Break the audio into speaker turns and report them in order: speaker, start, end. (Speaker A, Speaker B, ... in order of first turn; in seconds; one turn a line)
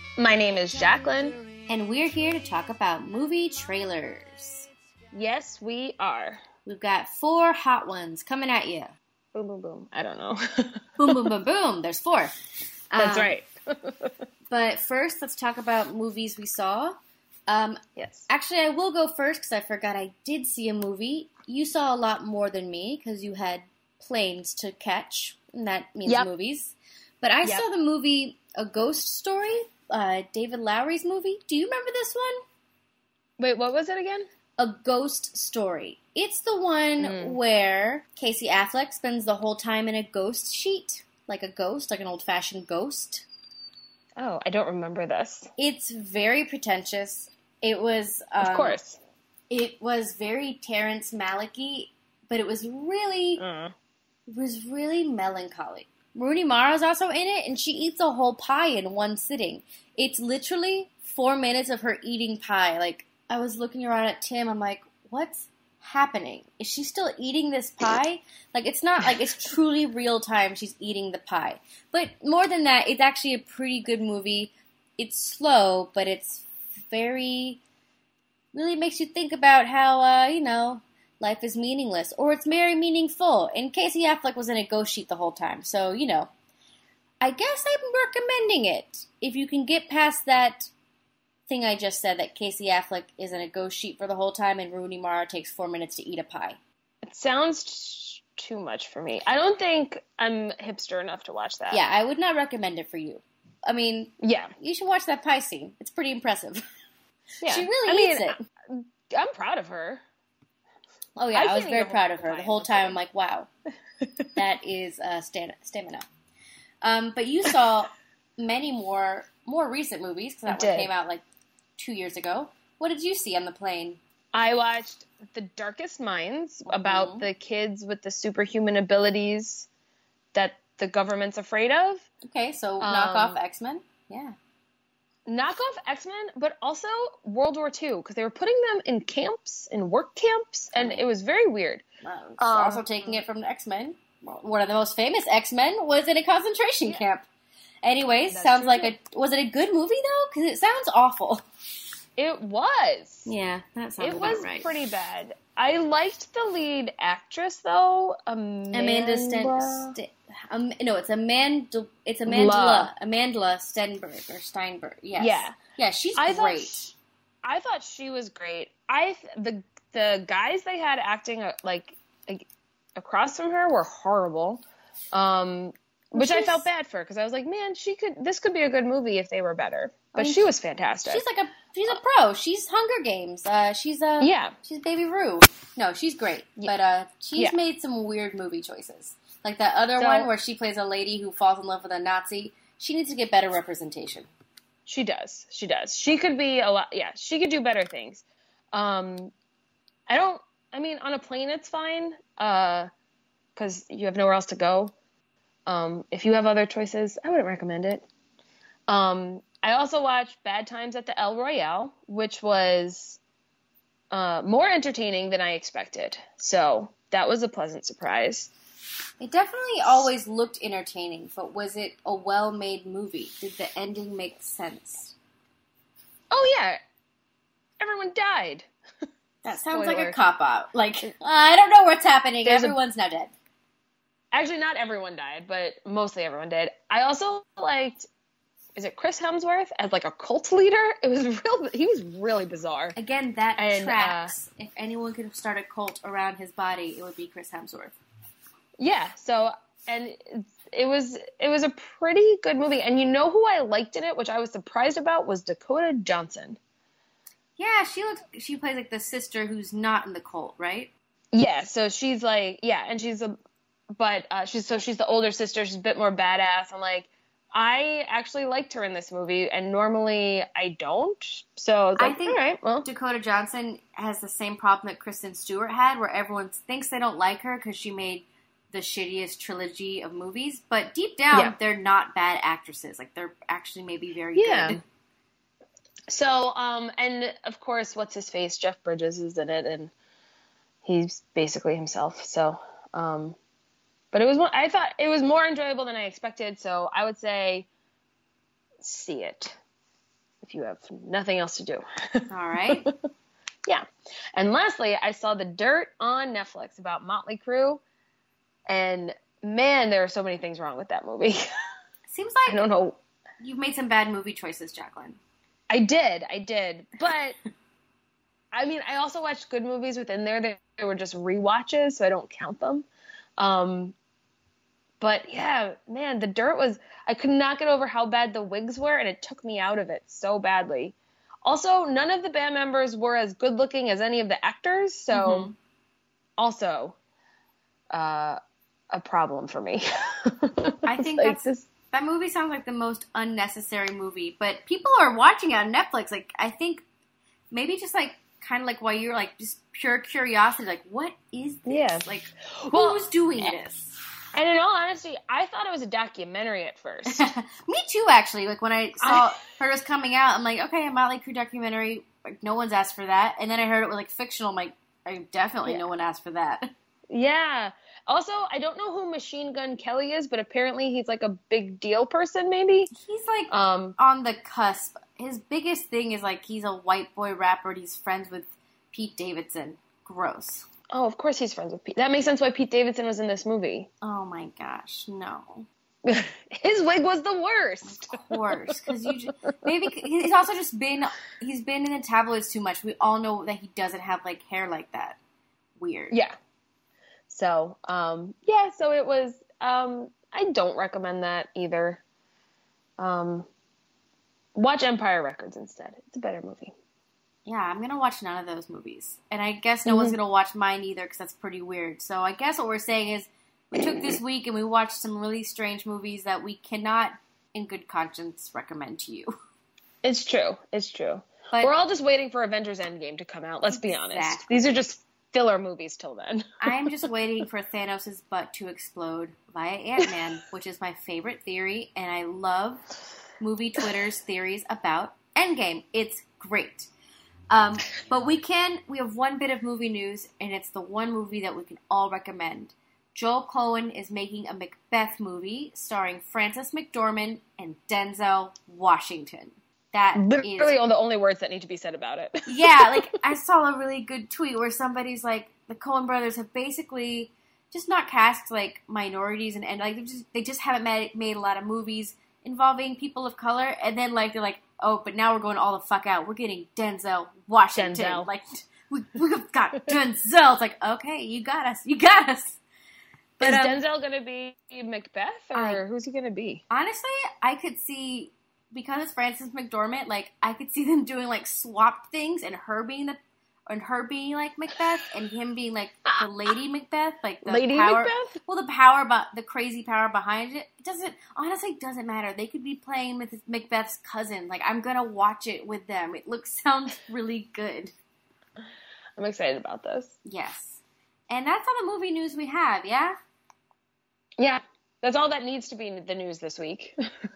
Speaker A: 0.2-1.4
Speaker B: 1.7-4.7
Speaker A: 5.1-6.4
Speaker B: 6.7-8.9
Speaker A: 9.3-11.1
Speaker B: 11.0-12.3
Speaker B: 12.9-13.3
Speaker A: 13.0-14.1
Speaker B: 14.5-32.4
Speaker A: 18.0-18.3
Speaker A: 33.4-34.3
Speaker B: 34.6-43.2
Speaker A: 37.0-37.4
Speaker A: 44.2-45.5
Speaker B: 45.6-48.8
Speaker A: 48.4-49.0
Speaker B: 49.5-53.4
Speaker A: 53.4-53.7
Speaker B: 54.3-77.6
Speaker B: 78.5-86.3
Speaker B: 87.2-90.7
Speaker B: 91.5-96.6
Speaker A: 97.0-101.8
Speaker B: 101.7-106.6
Speaker A: 104.2-104.5
Speaker A: 107.4-110.0
Speaker B: 107.5-108.3
Speaker B: 111.2-113.5
Speaker A: 111.3-113.0
Speaker B: 114.3-116.0
Speaker B: 116.8-121.2
Speaker A: 120.5-120.9
Speaker B: 121.8-124.0
Speaker A: 124.3-129.7
Speaker B: 126.7-127.3
Speaker A: 130.3-132.1
Speaker B: 132.2-134.3
Speaker A: 132.8-133.4
Speaker A: 135.3-141.8
Speaker B: 140.8-141.0
Speaker B: 142.0-147.2
Speaker A: 142.4-143.2
Speaker B: 147.8-151.4
Speaker A: 148.3-148.9
Speaker A: 152.2-153.3
Speaker B: 153.2-154.7
Speaker A: 154.0-159.9
Speaker B: 158.7-166.9
Speaker A: 162.3-162.9
Speaker A: 165.2-165.6
Speaker A: 166.2-166.9
Speaker A: 167.4-172.4
Speaker A: 172.9-181.2
Speaker B: 176.1-176.7
Speaker B: 180.1-180.5
Speaker B: 181.1-194.3
Speaker A: 184.2-184.5
Speaker A: 190.0-190.3
Speaker A: 194.9-199.3
Speaker A: 200.1-202.9
Speaker A: 203.6-204.9
Speaker A: 205.7-208.0
Speaker A: 208.9-213.2
Speaker A: 214.1-218.5
Speaker B: 219.2-225.1
Speaker A: 226.3-226.8
Speaker A: 227.8-228.7
Speaker B: 229.4-233.3
Speaker A: 229.7-230.2
Speaker A: 232.4-232.8
Speaker A: 234.3-238.1
Speaker A: 238.8-242.9
Speaker B: 242.9-247.9
Speaker A: 243.6-244.3
Speaker A: 248.8-256.6
Speaker B: 257.6-260.9
Speaker A: 261.3-263.4
Speaker A: 263.9-272.9
Speaker B: 272.0-284.8
Speaker A: 284.4-284.8
Speaker A: 286.1-289.9
Speaker A: 290.8-293.4
Speaker A: 294.1-297.7
Speaker A: 298.8-299.5
Speaker A: 300.4-302.2
Speaker B: 302.3-302.9
Speaker A: 304.4-307.8
Speaker A: 308.7-311.4
Speaker B: 312.1-312.6
Speaker A: 312.5-313.0
Speaker B: 313.4-315.2
Speaker A: 315.7-317.4
Speaker A: 318.5-322.8
Speaker A: 323.4-323.9
Speaker A: 325.0-335.5
Speaker B: 335.1-335.5
Speaker A: 336.4-336.9
Speaker A: 337.9-338.4
Speaker A: 338.9-341.7
Speaker B: 340.9-346.8
Speaker B: 347.5-354.0
Speaker A: 351.7-353.5
Speaker A: 354.3-357.2
Speaker B: 357.1-366.7
Speaker A: 359.0-359.3
Speaker A: 367.1-372.9
Speaker B: 372.9-380.6
Speaker A: 373.5-373.9
Speaker A: 380.9-383.9
Speaker B: 384.0-385.7
Speaker A: 386.1-388.4
Speaker B: 387.9-395.2
Speaker B: 395.8-396.1
Speaker A: 396.1-396.4
Speaker A: 397.3-402.0
Speaker A: 403.0-403.5
Speaker A: 404.5-406.7
Speaker B: 407.4-419.3
Speaker A: 409.9-410.1
Speaker A: 413.8-414.1
Speaker A: 420.0-426.7
Speaker B: 423.7-424.5
Speaker B: 426.6-432.8
Speaker B: 433.4-436.9
Speaker B: 437.5-450.8
Speaker A: 450.1-453.1
Speaker B: 452.5-472.6
Speaker A: 467.8-468.3
Speaker B: 473.4-473.8
Speaker A: 473.4-476.6
Speaker B: 475.5-475.8
Speaker B: 476.7-497.9
Speaker A: 487.4-488.4
Speaker A: 499.2-500.1
Speaker B: 500.2-503.2
Speaker A: 504.4-506.9